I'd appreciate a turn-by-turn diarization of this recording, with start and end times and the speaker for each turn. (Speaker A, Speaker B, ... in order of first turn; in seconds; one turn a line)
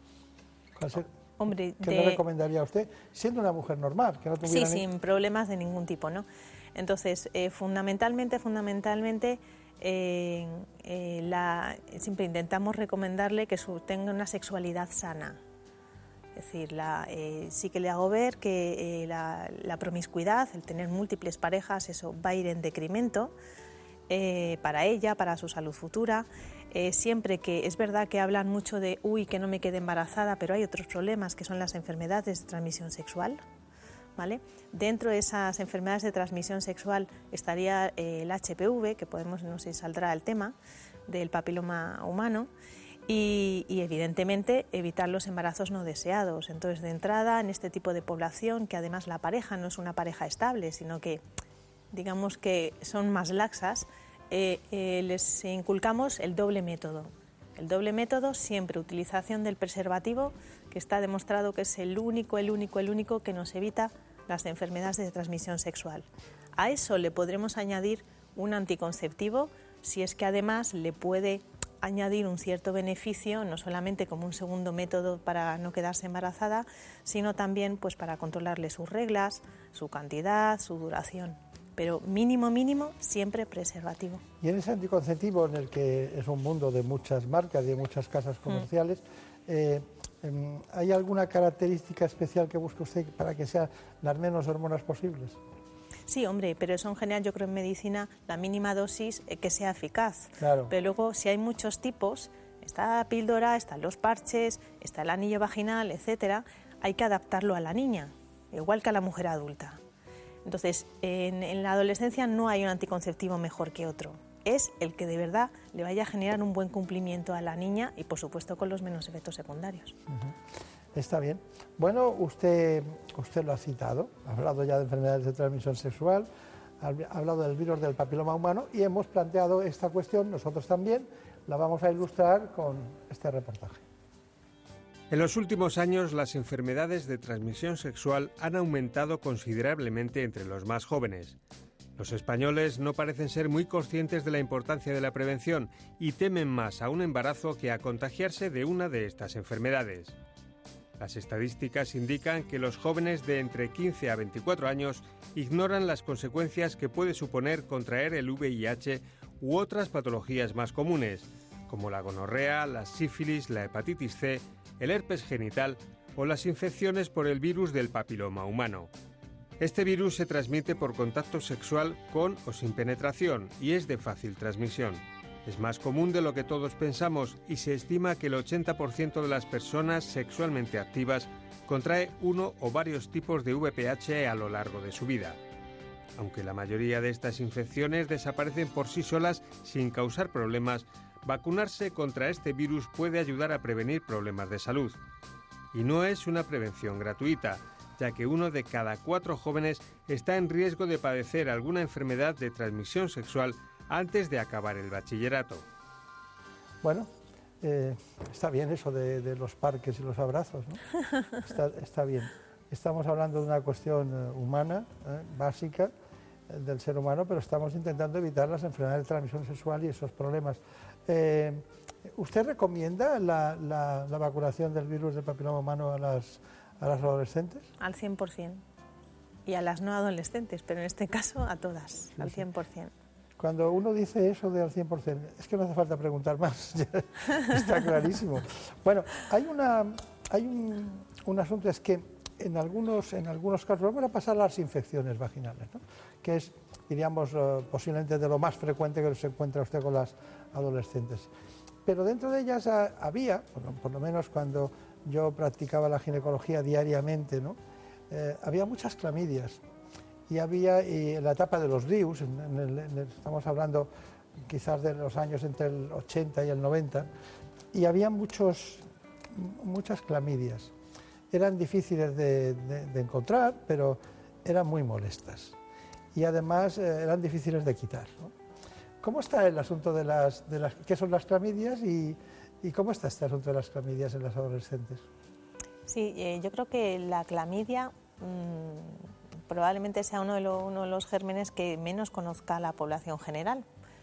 Speaker A: 0.8-1.1
Speaker B: 1.4-2.2
Speaker A: 1.8-4.8
Speaker B: 4.4-15.4
Speaker B: 16.4-23.3
Speaker B: 24.1-33.4
Speaker B: 34.2-40.5
Speaker B: 41.1-42.5
Speaker B: 43.1-51.2
Speaker B: 51.9-84.2
Speaker A: 84.4-95.4
Speaker B: 96.1-109.8
Speaker A: 100.4-100.7
Speaker B: 110.4-120.0
Speaker A: 120.1-120.4
Speaker A: 120.9-126.3
Speaker A: 126.8-133.8
Speaker C: 135.1-141.4
Speaker C: 142.0-150.2
Speaker C: 151.0-168.9
Speaker C: 169.6-185.4
Speaker C: 186.2-195.0
Speaker C: 195.7-205.6
Speaker A: 206.8-207.1
Speaker A: 207.6-210.8
Speaker A: 211.4-215.9
Speaker A: 216.5-227.7
Speaker B: 227.8-228.6
Speaker B: 229.5-232.9
Speaker A: 232.2-232.4
Speaker A: 233.4-251.3
Speaker A: 251.8-257.6
Speaker A: 258.1-259.6
Speaker A: 260.3-267.1
Speaker A: 267.7-270.7
Speaker A: 271.3-275.6
Speaker A: 276.1-278.3
Speaker A: 279.0-285.0
Speaker B: 285.9-293.6